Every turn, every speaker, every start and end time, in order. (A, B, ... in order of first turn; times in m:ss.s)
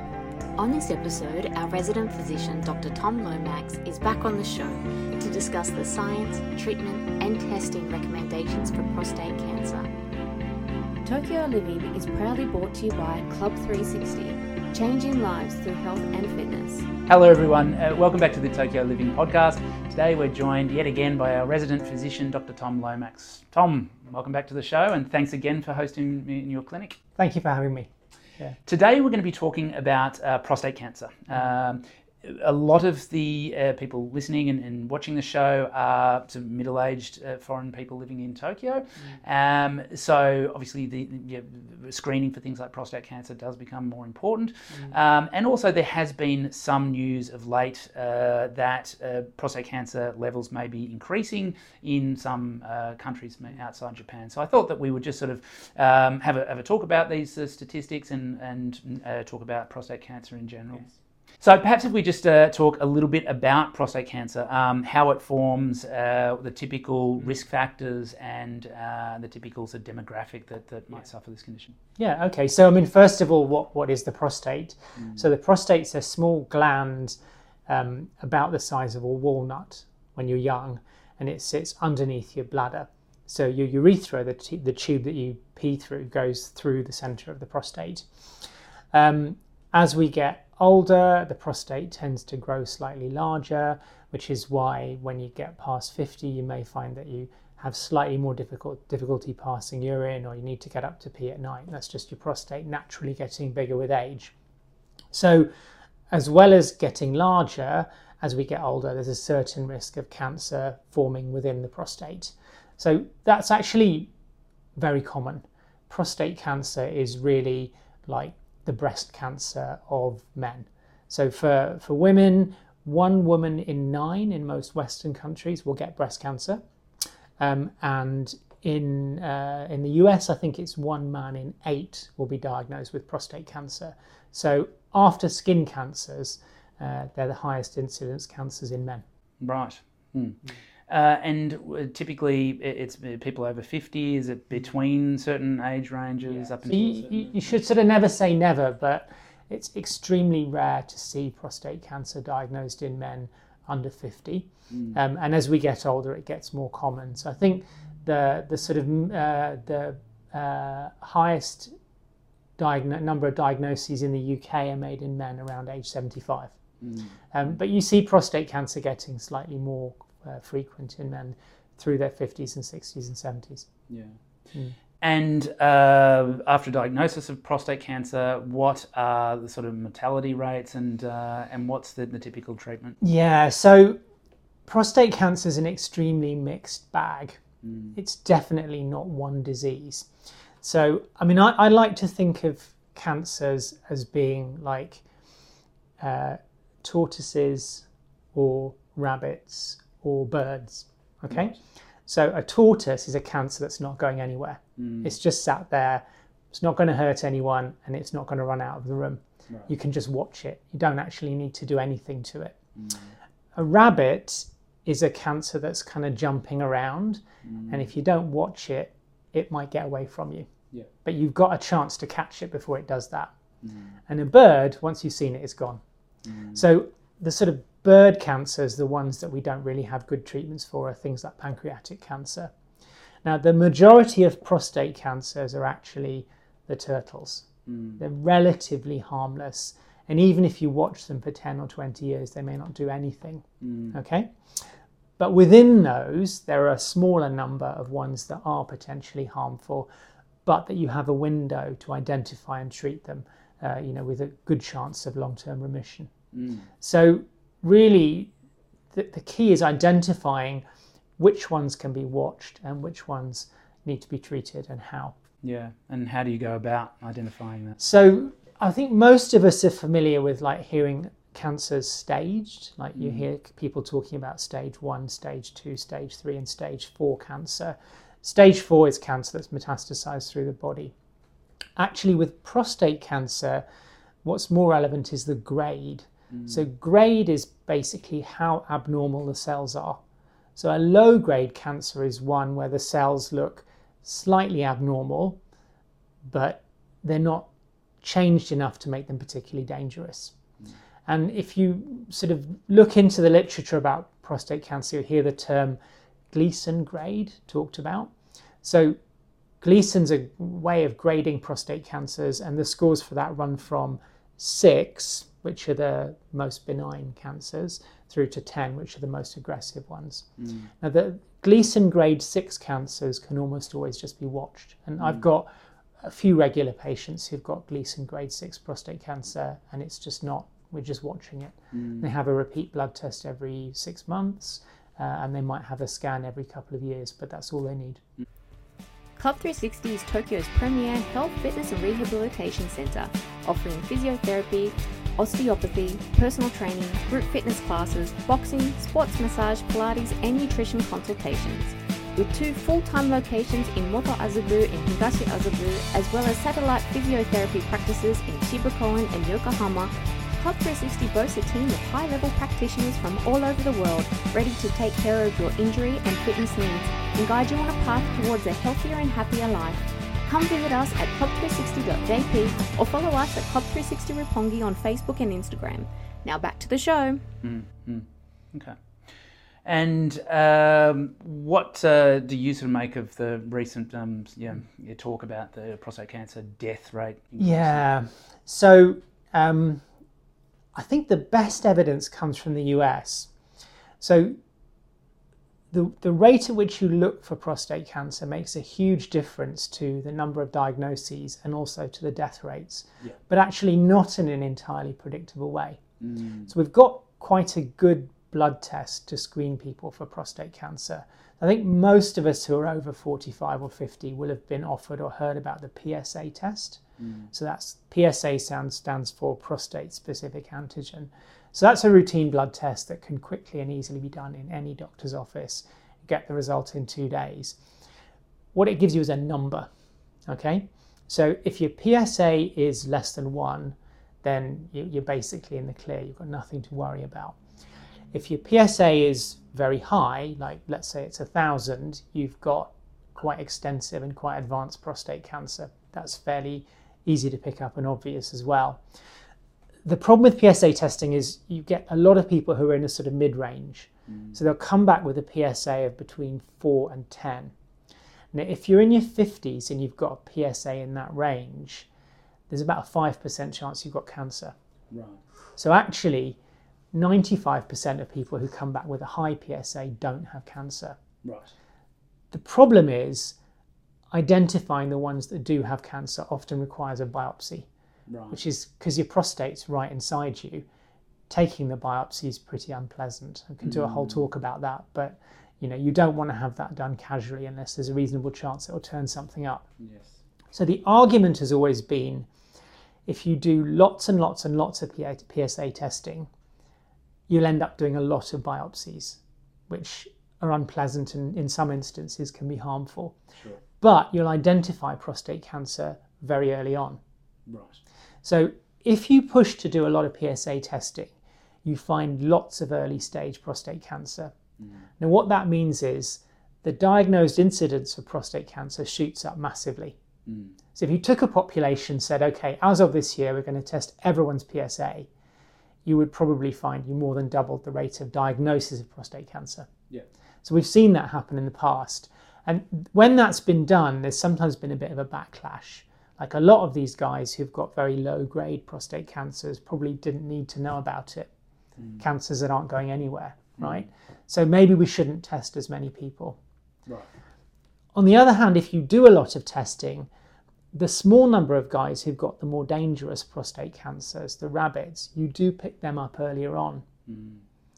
0:00.6-0:09.9 A
0:11.0-0:16.9 A
0:17.1-0:27.0 B
0:27.2-0:28.6 C
0:28.7-1:11.8 B
1:12.0-1:28.1 C
1:15.0-1:15.2 B
1:28.9-1:44.3 C
1:45.1-1:45.5 C
1:46.1-1:54.1 C
1:54.8-2:06.6 C
2:07.4-2:19.0 C
2:19.4-2:27.4 B
2:26.7-2:41.7 C
2:34.7-2:35.0 B
2:42.6-2:46.6 C
2:46.8-2:47.6 B
2:47.3-2:53.7 C
2:53.9-2:54.2 B
2:55.0-3:03.0 B
3:03.0-3:04.0 C
3:04.7-3:07.4 C
3:07.6-3:08.0 B
3:07.9-3:10.1 C
3:10.6-3:15.0 C
3:16.0-3:32.6 C
3:21.3-3:21.6 B
3:24.8-3:25.2 B
3:32.8-3:33.1 B
3:33.6-3:40.5 C
3:37.4-3:37.9 B
3:41.0-3:43.3 C
3:43.6-3:44.0 B
3:44.1-3:45.8 C
3:46.2-3:46.6 B
3:46.6-3:52.5 C
3:53.2-3:57.5 C
3:57.7-3:58.0 B
3:58.0-4:04.3 C
4:03.6-4:04.0 B
4:05.2-4:09.9 C
4:10.4-4:16.1 C
4:16.3-4:16.7 B
4:16.8-4:18.3 C
4:18.9-4:20.6 C
4:21.2-4:25.2 C
4:25.4-4:27.8 B
4:27.8-4:40.9 C
4:33.0-4:33.3 B
4:41.8-4:43.6 C
4:44.2-4:50.0 C
4:46.3-4:46.6 B
4:50.6-4:55.4 C
4:56.3-4:57.5 C
4:58.0-5:00.4 C
5:01.1-5:05.8 C
5:06.3-5:09.0 C
5:09.6-5:20.3 C
5:20.4-5:20.7 B
5:20.8-5:25.5 C
5:25.0-5:25.2 B
5:26.0-5:38.0 C
5:31.7-5:32.1 B
5:39.2-6:17.2 A
6:17.4-6:19.1 B
6:19.6-6:27.8 B
6:27.4-6:29.8 C
6:30.8-6:33.3 C
6:34.0-6:34.4 C
6:35.7-6:45.8 C
6:46.0-6:46.5 B
6:46.5-6:56.8 C
6:57.0-6:57.3 B
6:57.3-7:07.6 C
7:08.5-7:09.7 C
7:10.3-7:17.4 C
7:18.1-7:28.8 C
7:29.8-7:37.5 C
7:34.1-7:34.4 B
7:38.3-7:41.9 C
7:42.5-7:44.6 C
7:44.9-7:45.2 B
7:45.6-7:46.4 C
7:46.9-7:51.0 C
7:51.2-7:51.5 B
7:52.3-7:53.4 C
7:54.1-7:57.7 C
7:58.1-7:58.4 B
7:58.3-8:00.6 C
8:01.3-8:09.7 C
8:03.6-8:04.2 B
8:09.8-8:10.2 B
8:10.5-8:12.3 C
8:13.1-8:16.3 C
8:17.3-8:23.2 C
8:23.4-8:23.6 B
8:23.8-8:27.0 C
8:27.5-8:27.8 B
8:28.2-8:34.4 C
8:34.6-8:34.9 B
8:35.0-8:40.0 C
8:40.3-8:40.5 B
8:40.8-8:45.1 C
8:45.8-8:49.7 C
8:50.4-9:01.3 C
9:01.8-9:02.0 B
9:02.0-9:06.4 C
9:03.6-9:03.9 B
9:07.9-9:10.1 C
9:10.7-9:16.9 C
9:17.1-9:17.4 B